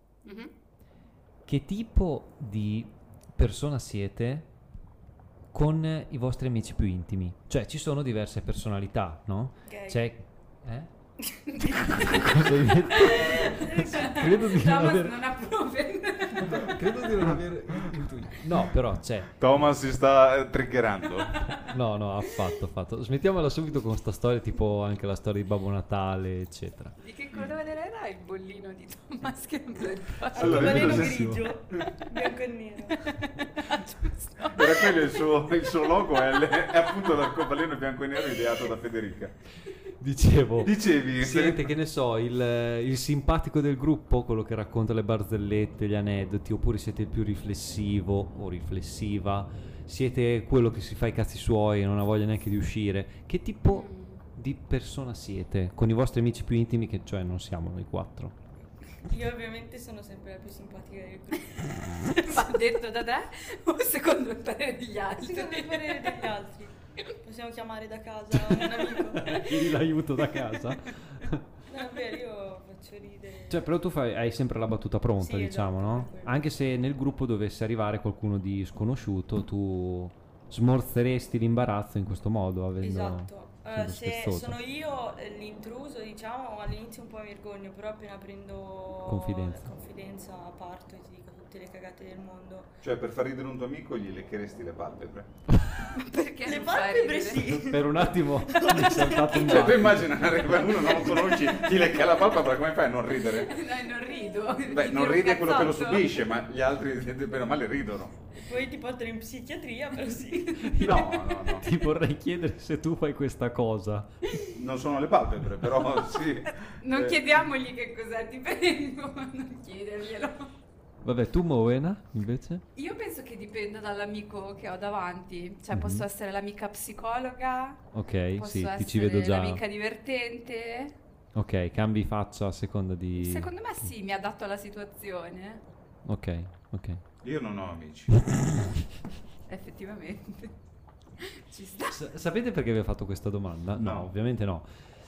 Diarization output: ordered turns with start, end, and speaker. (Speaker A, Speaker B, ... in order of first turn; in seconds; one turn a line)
Speaker A: 0.2-0.5
Speaker B: 1.5-4.5
Speaker B: 5.5-10.9
Speaker C: 9.7-10.0
Speaker A: 11.5-12.2
Speaker C: 11.6-14.5
Speaker B: 11.6-15.2
Speaker A: 13.0-17.0
Speaker B: 16.4-19.4
Speaker D: 19.4-21.5
Speaker B: 21.6-27.0
Speaker A: 27.0-30.9
Speaker C: 30.3-33.0
Speaker D: 30.4-31.8
Speaker B: 30.4-31.4
Speaker A: 31.8-32.1
Speaker A: 33.0-35.3
Speaker D: 34.5-39.3
Speaker A: 36.2-36.5
Speaker B: 40.0-58.3
Speaker D: 40.6-41.7
Speaker A: 53.7-54.2
Speaker C: 59.0-61.8
Speaker B: 61.9-62.4
Speaker A: 62.2-66.3
Speaker C: 65.2-69.7
Speaker B: 68.5-71.4
Speaker C: 71.7-73.7
Speaker B: 73.5-84.6
Speaker C: 75.2-76.5
Speaker C: 82.8-92.7
Speaker B: 89.1-89.7
Speaker D: 92.8-95.3
Speaker A: 95.8-97.6
Speaker C: 96.5-99.8
Speaker B: 97.4-100.2
Speaker D: 99.4-103.6
Speaker C: 100.3-101.8
Speaker A: 103.3-106.1
Speaker D: 104.7-108.2
Speaker C: 108.4-110.7
Speaker A: 110.3-111.4
Speaker B: 110.6-114.1
Speaker D: 110.8-111.7
Speaker D: 114.5-117.3
Speaker A: 116.8-120.5
Speaker B: 121.0-122.6
Speaker A: 122.8-127.8
Speaker B: 125.7-126.0
Speaker B: 127.9-129.6
Speaker A: 128.3-130.9
Speaker B: 131.3-133.5
Speaker A: 133.2-135.6
Speaker B: 136.1-137.0
Speaker D: 137.2-138.1
Speaker B: 138.2-138.8
Speaker A: 139.5-140.5
Speaker A: 141.2-142.0
Speaker B: 141.9-144.7
Speaker D: 143.8-144.1